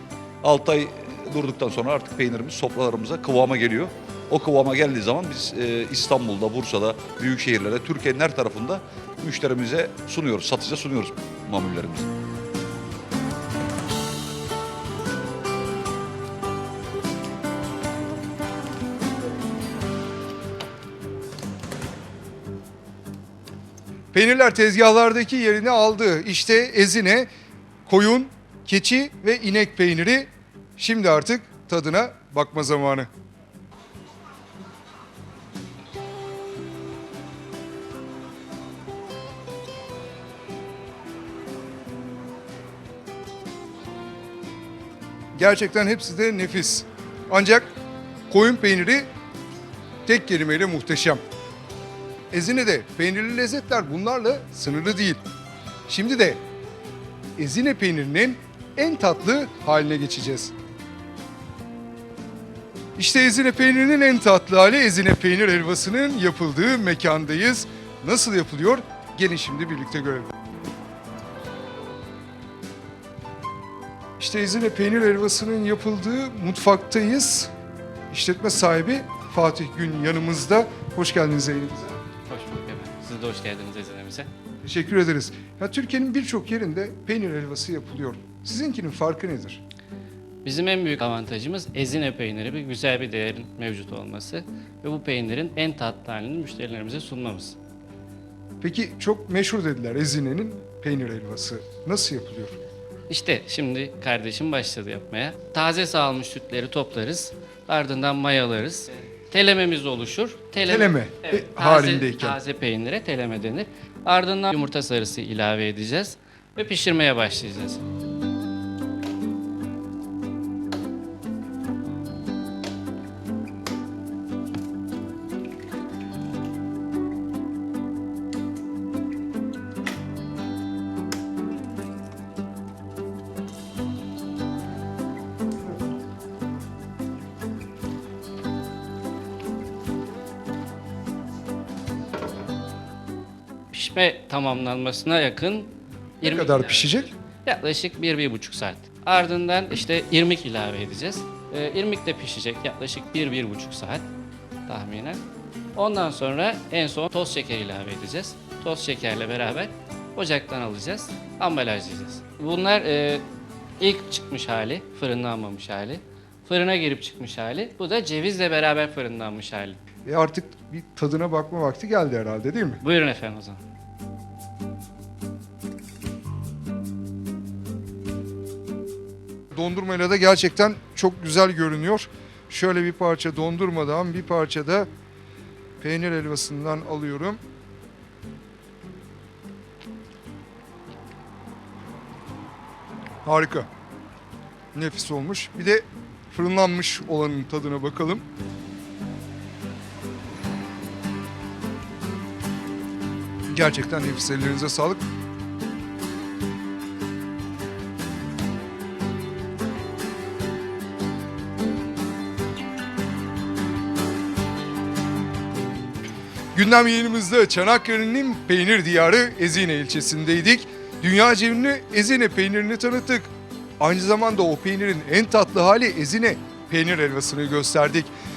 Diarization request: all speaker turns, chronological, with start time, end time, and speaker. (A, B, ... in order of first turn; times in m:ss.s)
0:00.4-0:12.1 A
0:24.1-0:27.3 B
0:27.9-0:33.1 B
0:45.4-0:47.7 B
0:48.3-0:49.1 B
0:50.1-0:51.2 B
0:52.3-0:55.2 B
0:55.9-0:56.4 B
0:57.4-1:00.5 B
1:03.0-1:10.3 B
1:14.2-1:17.5 B
1:18.1-1:22.0 B
1:22.3-1:24.3 C
1:24.6-1:29.6 B
1:30.4-1:37.6 C
1:38.6-1:42.6 B
1:43.1-1:57.8 C
1:50.7-1:52.4 B
2:23.7-2:34.0 C
2:26.2-2:27.1 B
2:34.7-2:35.2 C
2:35.8-2:43.2 C
2:43.8-2:49.8 C
2:50.0-2:52.8 B
2:52.8-2:53.6 C
2:59.5-3:04.9 B
3:05.8-3:07.4 B
3:13.2-3:13.7 B
3:14.7-3:18.2 B
3:23.5-3:25.0 B
3:36.5-3:43.3 B
3:43.8-3:48.1 B